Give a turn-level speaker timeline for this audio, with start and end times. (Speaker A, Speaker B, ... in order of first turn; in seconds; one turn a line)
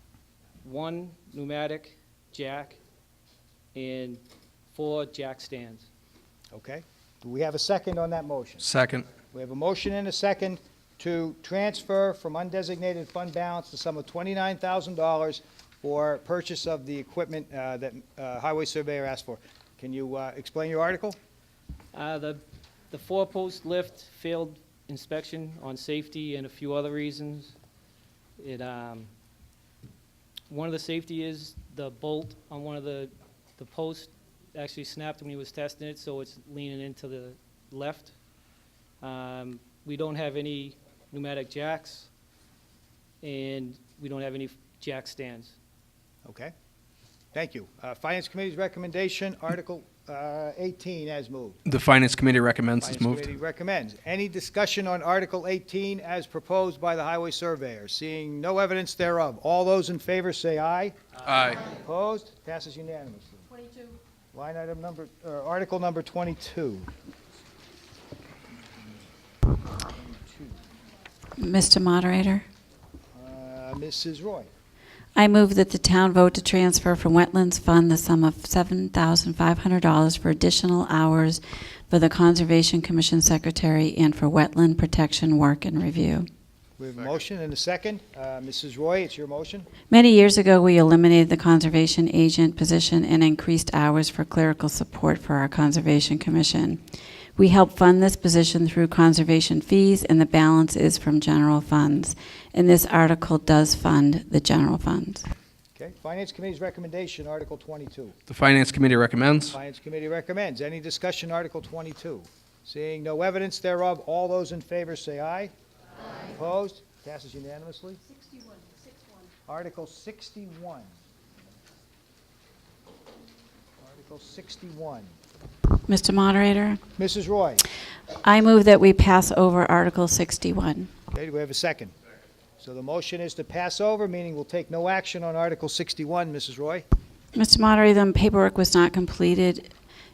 Speaker A: 0.6-2.8
Speaker A: 3.8-4.2
Speaker A: 4.7-5.9
Speaker B: 6.5-8.6
Speaker C: 8.6-9.1
Speaker B: 9.3-21.2
Speaker A: 21.9-27.6
Speaker A: 28.4-29.1
Speaker A: 30.5-38.1
Speaker A: 39.0-42.1
Speaker A: 43.2-45.5
Speaker B: 46.2-46.5
Speaker B: 47.3-51.6
Speaker C: 51.7-53.3
Speaker B: 52.8-61.0
Speaker C: 61.2-61.6
Speaker B: 61.7-63.5
Speaker B: 64.3-66.9
Speaker B: 68.7-69.0
Speaker B: 69.8-70.6
Speaker D: 71.4-72.5
Speaker B: 73.1-74.5
Speaker D: 75.2-86.3
Speaker B: 86.8-89.7
Speaker D: 89.9-96.8
Speaker D: 97.4-105.3
Speaker B: 105.8-108.2
Speaker C: 108.3-109.6
Speaker B: 109.5-115.5
Speaker B: 116.3-118.0
Speaker B: 119.5-120.9
Speaker B: 123.8-125.1
Speaker D: 125.9-126.8
Speaker B: 127.0-127.7
Speaker D: 128.2-130.9
Speaker B: 131.1-131.9
Speaker B: 132.6-136.8
Speaker D: 137.3-139.7